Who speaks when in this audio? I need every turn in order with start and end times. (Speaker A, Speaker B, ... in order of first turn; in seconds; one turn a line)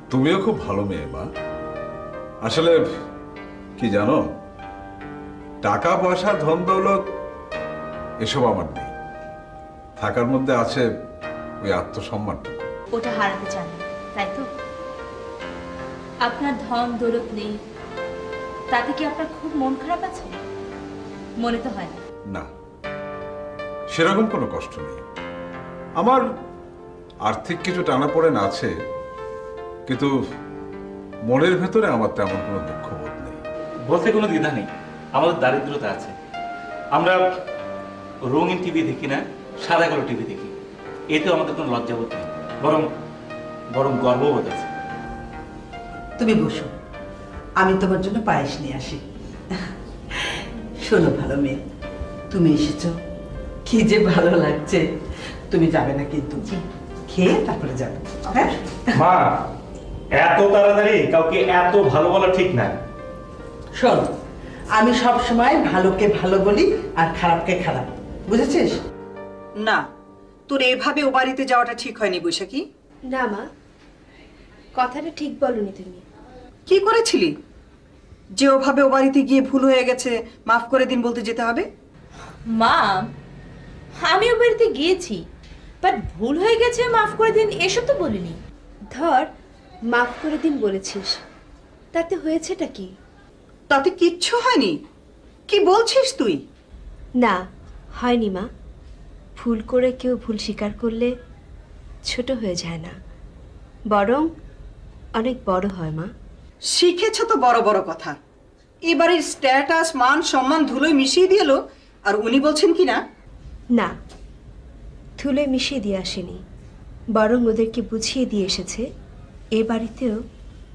Speaker A: 0.1-1.3
Speaker A: 2.4-2.8
Speaker A: 3.8-4.3
Speaker A: 5.6-7.1
Speaker A: 8.2-8.9
Speaker A: 10.0-10.9
Speaker A: 11.6-12.7
Speaker B: 12.9-14.5
Speaker B: 16.2-17.6
Speaker B: 18.7-20.4
Speaker B: 21.4-22.0
Speaker A: 23.9-25.0
Speaker A: 26.0-26.2
Speaker A: 27.2-28.7
Speaker A: 29.9-30.2
Speaker A: 31.3-33.4
Speaker C: 33.9-36.1
Speaker C: 36.9-37.2
Speaker C: 38.3-40.5
Speaker C: 41.1-42.9
Speaker C: 43.7-44.7
Speaker D: 46.2-46.7
Speaker D: 47.6-51.6
Speaker D: 52.3-53.0
Speaker D: 53.7-54.8
Speaker D: 55.5-56.5
Speaker D: 57.1-59.0
Speaker C: 59.0-59.5
Speaker C: 60.2-62.8
Speaker D: 63.8-64.1
Speaker D: 64.8-68.8
Speaker E: 70.5-72.7
Speaker F: 73.1-73.5
Speaker F: 74.8-76.0
Speaker E: 76.7-77.3
Speaker E: 78.4-81.7
Speaker B: 82.5-83.1
Speaker B: 84.0-85.2
Speaker B: 85.8-88.4
Speaker F: 88.9-89.3
Speaker F: 89.9-91.2
Speaker F: 91.9-92.9
Speaker E: 93.7-94.8
Speaker E: 95.5-96.4
Speaker F: 98.0-98.5
Speaker F: 99.4-101.1
Speaker F: 102.1-103.0
Speaker F: 103.9-104.3
Speaker F: 105.2-106.1
Speaker E: 106.7-108.2
Speaker E: 108.9-113.0
Speaker F: 115.2-116.4
Speaker F: 117.2-118.8
Speaker F: 119.6-120.2